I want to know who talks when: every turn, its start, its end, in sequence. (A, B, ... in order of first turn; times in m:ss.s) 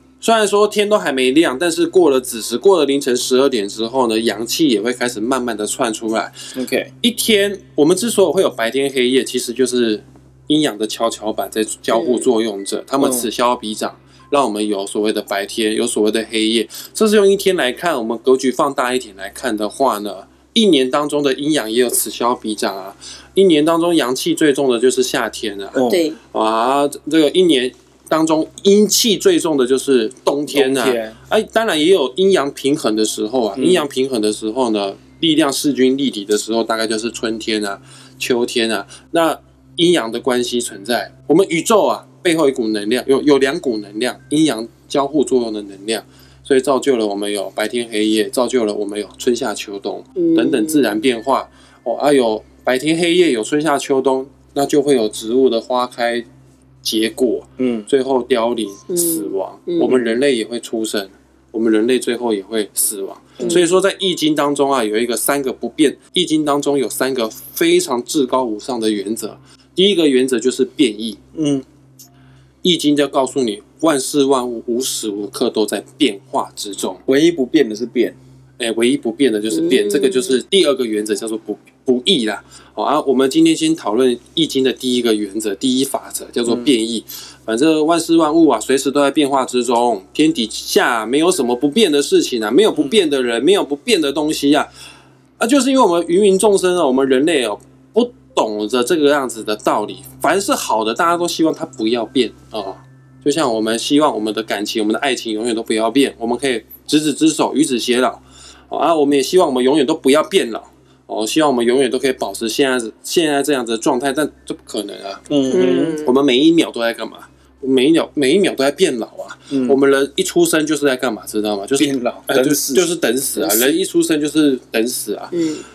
0:00.2-0:06.4 A
0:06.6-0:06.9 B
0:07.0-0:56.3 A
0:12.0-0:12.2 C
0:13.0-0:13.3 B
0:25.7-0:26.0 B
0:25.9-0:26.2 C
0:30.5-0:31.2 B
0:33.6-0:33.8 B
0:50.2-0:50.9 C
0:56.8-1:11.2 A
0:57.6-0:57.9 B
0:58.9-1:00.0 C
1:03.4-1:03.6 B
1:03.4-1:03.7 C
1:11.4-1:11.6 B
1:12.6-1:17.0 A
1:17.1-1:18.2 B
1:18.6-1:34.7 A
1:19.7-1:20.3 C
1:26.5-1:26.7 B
1:35.4-2:05.3 A
1:55.3-1:56.0 B
1:55.5-1:56.1 C
1:59.5-1:59.8 B
2:01.8-2:02.9 B
2:03.4-2:03.8 C
2:05.3-2:05.6 C